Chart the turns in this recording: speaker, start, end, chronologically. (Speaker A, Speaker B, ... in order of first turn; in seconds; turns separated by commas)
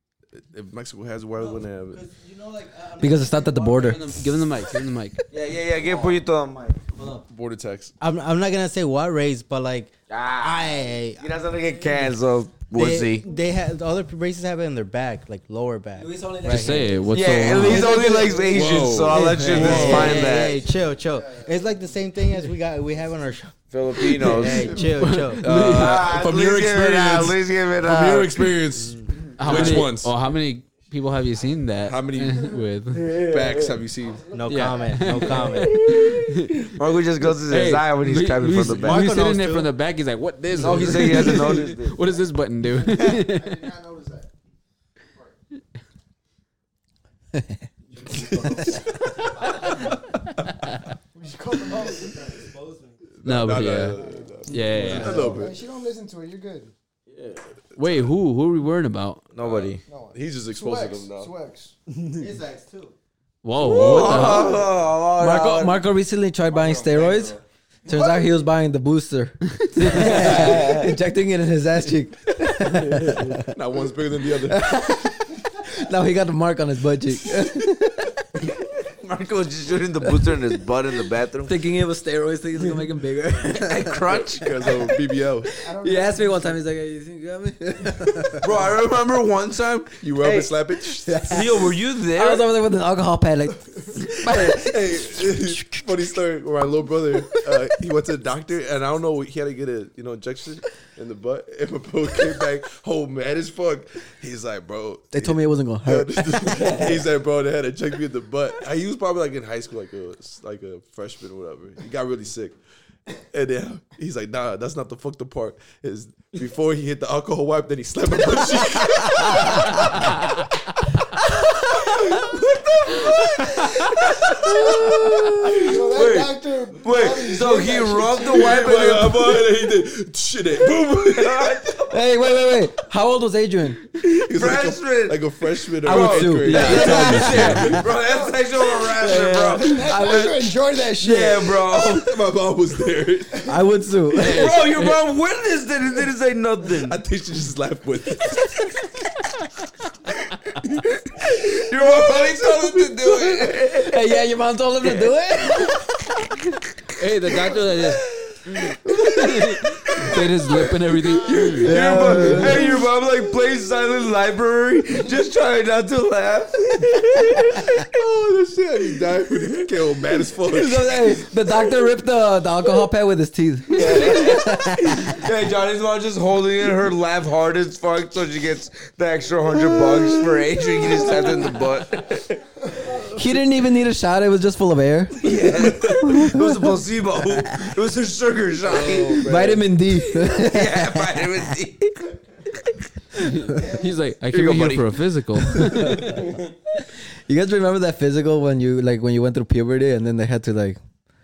Speaker A: 0.4-2.0, Speaker B: 1.4-4.5, Speaker C: 3.0-4.0, Speaker D: 3.8-5.2, Speaker E: 5.3-6.8, Speaker B: 5.9-6.2, Speaker A: 7.3-7.9, Speaker B: 8.0-11.3, Speaker E: 10.1-13.3, Speaker B: 11.8-12.1, Speaker B: 12.7-17.0, Speaker C: 16.0-18.5, Speaker D: 16.4-18.0, Speaker E: 17.1-20.6, Speaker B: 17.7-23.6, Speaker A: 18.5-20.2, Speaker C: 19.4-20.3, Speaker E: 23.7-24.8, Speaker A: 24.0-24.8, Speaker B: 24.1-25.4, Speaker D: 25.0-26.1, Speaker A: 25.4-30.1, Speaker E: 25.5-29.8, Speaker D: 29.4-33.1, Speaker A: 31.8-32.5, Speaker E: 32.9-33.8, Speaker A: 33.2-34.3, Speaker F: 34.1-35.3, Speaker B: 34.3-35.8, Speaker D: 34.5-36.7, Speaker E: 36.7-39.1, Speaker D: 37.5-43.6, Speaker B: 38.6-39.7, Speaker E: 40.6-42.1, Speaker F: 42.6-44.3, Speaker C: 47.3-47.7, Speaker B: 48.1-48.6, Speaker C: 48.2-48.8, Speaker F: 51.1-52.4, Speaker B: 51.7-53.0, Speaker A: 53.2-55.5, Speaker D: 53.2-54.0, Speaker F: 53.9-56.7, Speaker D: 54.5-55.3, Speaker B: 55.0-55.4, Speaker C: 55.1-55.3, Speaker D: 57.8-59.2, Speaker A: 57.8-58.0, Speaker E: 59.3-59.8, Speaker A: 59.4-61.3, Speaker F: 59.9-61.7, Speaker B: 62.1-62.9, Speaker D: 63.4-64.6, Speaker E: 63.6-65.8, Speaker A: 63.6-64.5, Speaker C: 65.1-73.5, Speaker B: 66.5-67.4, Speaker F: 67.9-68.4, Speaker E: 69.8-70.9, Speaker D: 69.9-70.1, Speaker A: 73.3-75.1, Speaker C: 74.5-78.1, Speaker E: 78.9-81.5, Speaker C: 81.5-84.0, Speaker E: 83.4-84.6, Speaker A: 84.1-85.5, Speaker F: 85.5-86.6, Speaker C: 85.7-88.5, Speaker E: 88.4-90.5, Speaker A: 90.0-91.4, Speaker C: 91.0-91.6, Speaker E: 91.3-92.4, Speaker C: 92.1-95.8, Speaker A: 94.0-112.6, Speaker C: 105.1-106.9, Speaker E: 106.6-106.9, Speaker A: 113.3-119.9, Speaker A: 121.8-122.9, Speaker E: 124.7-129.3, Speaker A: 125.5-126.1, Speaker F: 125.5-128.7, Speaker A: 128.2-131.7, Speaker E: 131.1-131.9, Speaker C: 131.9-133.8, Speaker A: 134.0-137.8, Speaker E: 134.1-135.2, Speaker E: 135.8-142.1, Speaker C: 135.8-137.8, Speaker D: 136.4-137.8, Speaker F: 137.9-138.8, Speaker F: 139.5-141.7, Speaker A: 141.7-143.5, Speaker C: 143.5-144.5, Speaker D: 144.2-145.0, Speaker E: 144.2-147.0, Speaker A: 146.8-148.9, Speaker E: 151.2-154.1, Speaker A: 151.9-153.4, Speaker C: 153.7-155.9, Speaker D: 156.9-158.0, Speaker D: 158.9-161.8, Speaker E: 160.6-167.8, Speaker C: 161.6-162.7, Speaker A: 167.8-171.2, Speaker C: 170.4-175.2, Speaker E: 173.7-182.4, Speaker F: 182.7-183.0, Speaker C: 183.1-185.3, Speaker E: 185.2-192.5, Speaker A: 185.6-185.9, Speaker C: 186.0-186.7, Speaker A: 188.6-189.6, Speaker C: 189.2-191.2, Speaker D: 193.2-196.3, Speaker E: 194.3-194.9, Speaker C: 195.5-196.3, Speaker C: 197.2-200.8